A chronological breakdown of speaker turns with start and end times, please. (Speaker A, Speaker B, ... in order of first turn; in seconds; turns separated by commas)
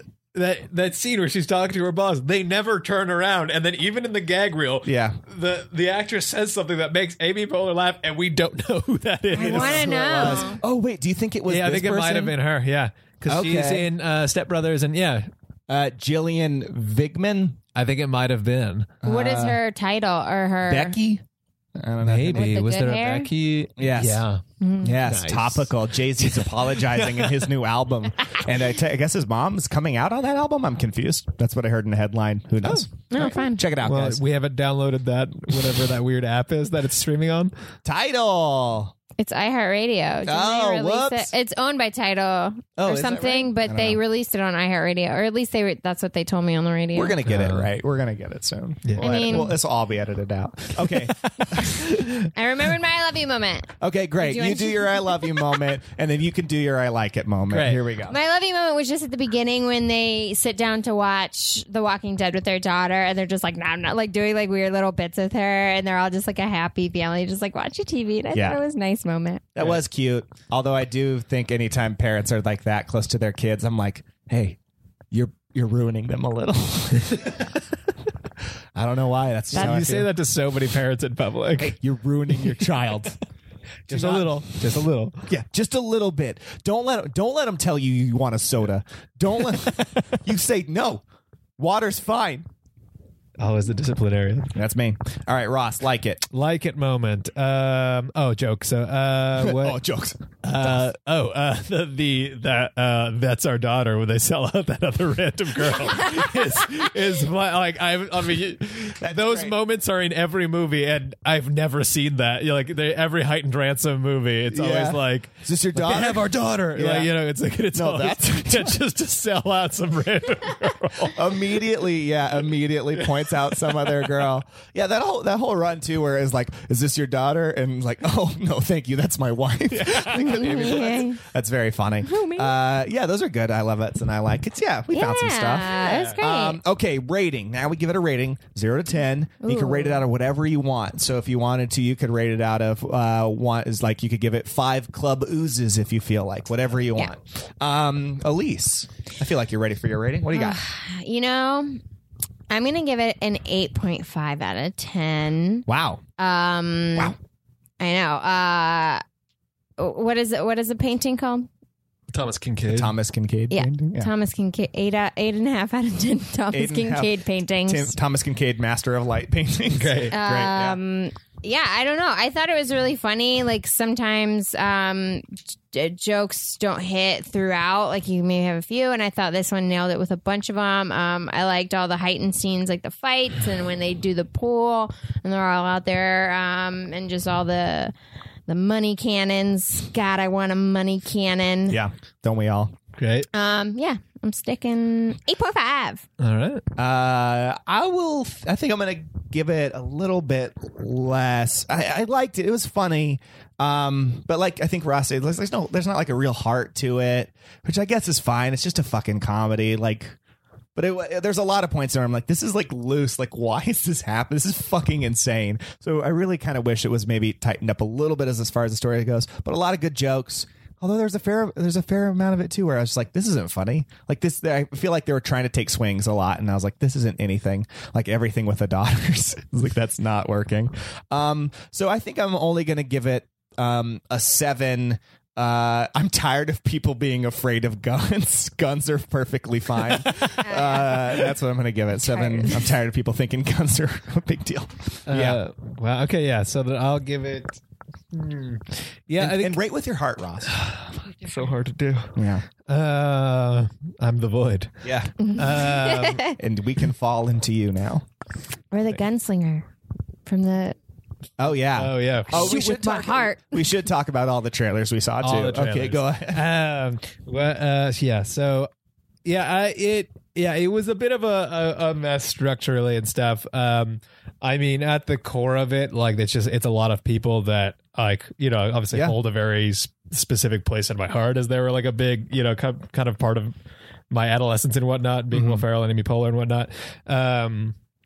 Speaker A: 0.3-10.5, Speaker B: 4.8-5.2, Speaker C: 9.3-10.6, Speaker B: 9.4-12.3, Speaker A: 11.5-15.3, Speaker B: 13.3-13.9, Speaker B: 15.7-17.6, Speaker A: 17.7-18.9, Speaker B: 19.0-19.6, Speaker C: 19.0-21.0, Speaker B: 20.6-21.2, Speaker B: 21.8-22.6, Speaker A: 22.1-24.4, Speaker C: 22.3-23.3, Speaker B: 23.8-24.2, Speaker C: 24.6-25.0, Speaker B: 24.8-34.2, Speaker A: 25.1-27.5, Speaker C: 33.1-33.6, Speaker A: 33.8-37.5, Speaker B: 37.8-38.9, Speaker C: 39.2-47.1, Speaker B: 40.2-41.3, Speaker B: 42.8-44.0, Speaker B: 46.9-51.9, Speaker A: 47.2-47.7, Speaker A: 48.8-49.5, Speaker C: 49.0-49.5, Speaker A: 50.8-52.3, Speaker C: 52.3-55.5, Speaker B: 53.8-58.1, Speaker A: 57.5-57.8, Speaker C: 58.1-69.5, Speaker B: 68.3-68.6, Speaker B: 69.5-74.6, Speaker B: 75.1-77.5, Speaker A: 77.1-77.4, Speaker B: 78.7-80.1, Speaker A: 79.5-81.8, Speaker B: 81.6-83.2, Speaker A: 83.9-85.2, Speaker B: 83.9-84.5, Speaker B: 85.3-91.0, Speaker A: 89.5-90.0, Speaker B: 91.6-92.5, Speaker A: 93.4-94.5, Speaker B: 94.5-96.3, Speaker A: 96.3-99.8, Speaker B: 99.4-100.9, Speaker A: 100.4-121.3, Speaker B: 109.0-109.5, Speaker B: 114.5-117.1, Speaker B: 117.7-118.8, Speaker B: 121.0-150.6, Speaker A: 123.0-124.2, Speaker A: 129.7-130.9, Speaker C: 130.1-131.2, Speaker C: 132.0-132.5, Speaker C: 134.9-136.6, Speaker A: 135.7-136.2, Speaker C: 139.4-140.0, Speaker C: 150.3-151.8, Speaker C: 152.5-155.7, Speaker B: 155.7-156.0, Speaker C: 156.2-157.1, Speaker C: 157.8-159.0, Speaker C: 159.8-161.5, Speaker A: 162.1-162.9, Speaker B: 162.7-164.1, Speaker C: 163.5-167.9, Speaker B: 166.5-170.8, Speaker A: 169.7-170.1, Speaker C: 170.1-187.9, Speaker C: 188.5-191.8, Speaker B: 191.7-192.7, Speaker A: 192.9-193.3, Speaker C: 193.3-196.0, Speaker A: 196.2-196.6, Speaker B: 196.8-210.2, Speaker B: 210.8-245.4, Speaker A: 239.8-240.4, Speaker C: 240.4-241.0, Speaker C: 242.1-242.6, Speaker A: 245.1-247.6, Speaker A: 248.1-249.6, Speaker B: 249.2-250.6, Speaker A: 250.5-252.1, Speaker B: 252.1-252.4, Speaker A: 252.7-254.7, Speaker B: 254.8-255.3, Speaker C: 255.2-256.4, Speaker A: 255.2-256.3, Speaker B: 256.3-258.1, Speaker C: 258.7-259.7, Speaker C: 260.3-260.8, Speaker B: 261.4-266.4, Speaker A: 261.7-262.6, Speaker C: 262.3-263.6, Speaker A: 265.2-268.7, Speaker A: 269.2-283.5, Speaker A: 284.1-287.7, Speaker B: 285.3-285.6